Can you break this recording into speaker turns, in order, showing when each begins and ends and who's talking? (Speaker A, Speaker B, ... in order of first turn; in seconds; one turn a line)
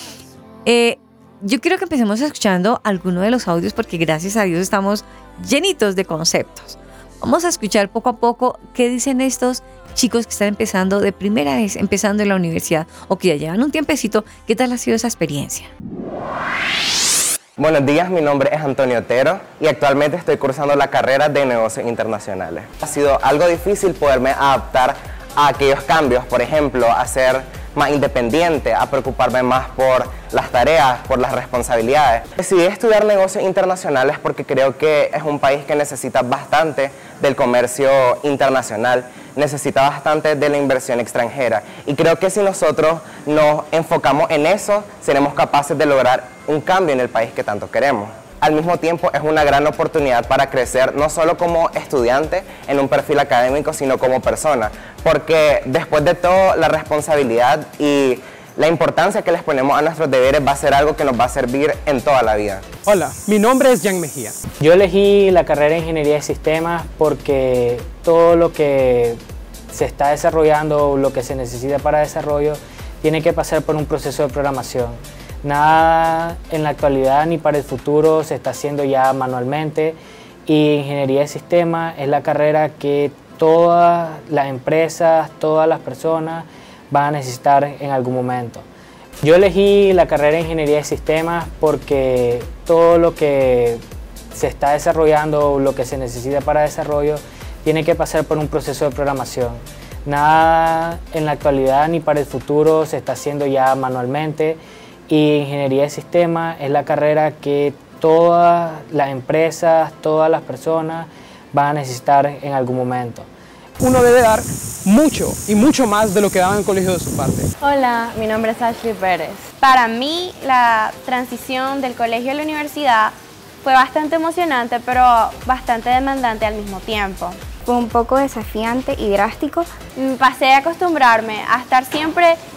Speaker A: 0.6-15.7
Speaker B: 17.6-62.7
Speaker C: 62.9-64.5
Speaker D: 64.5-69.2
Speaker D: 69.7-88.7
Speaker D: 89.2-93.8
Speaker D: 94.3-113.3
Speaker C: 113.8-117.5
Speaker E: 117.6-127.4
Speaker F: 127.6-129.7
Speaker E: 130.0-132.4